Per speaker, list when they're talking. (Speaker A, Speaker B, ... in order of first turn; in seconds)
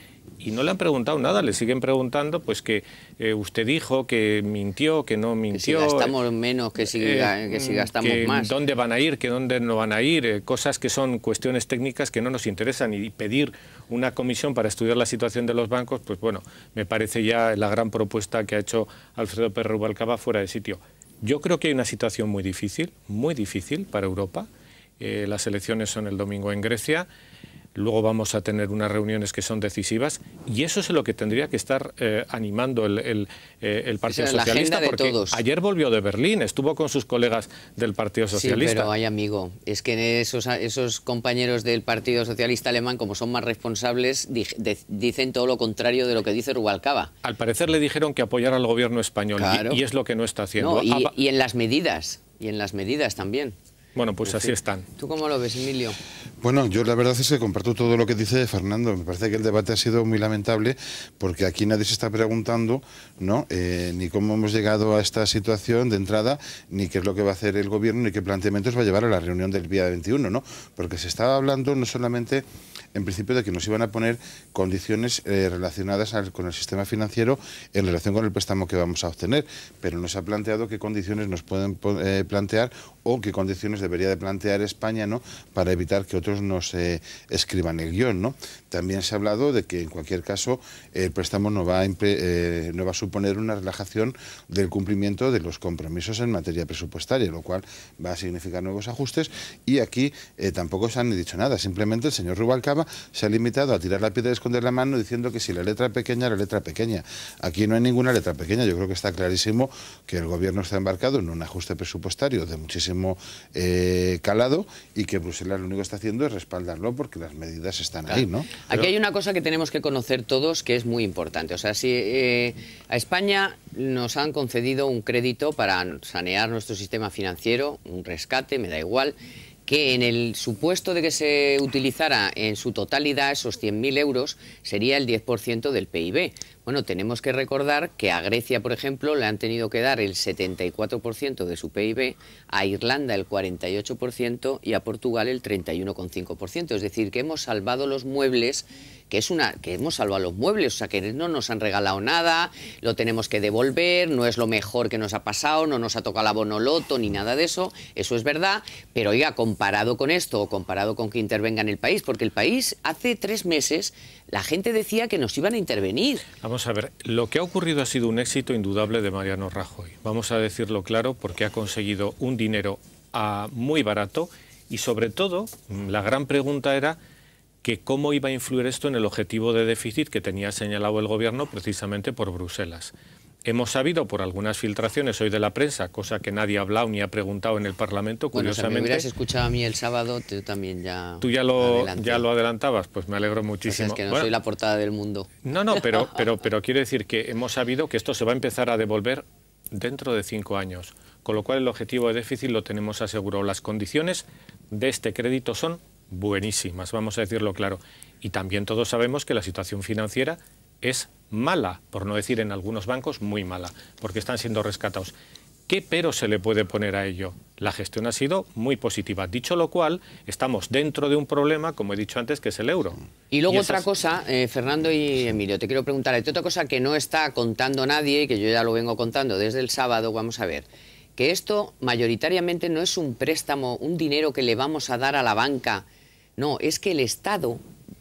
Speaker A: 0.4-6.1, 6.8-24.5, 25.0-27.1, 27.8-38.9, 47.2-51.1, 54.0-54.9, 166.4-177.0, 177.6-182.9, 183.4-189.1, 191.2-194.3, 195.4-215.1, 215.7-223.8
Speaker B: 5.5-8.5, 34.1-35.4, 38.3-47.1, 49.4-49.8, 50.6-53.6, 54.2-56.0, 118.1-129.2, 129.7-166.3, 188.3-192.2, 193.7-195.3, 223.3-230.7, 231.2-235.8, 236.4-237.6
Speaker C: 56.4-118.5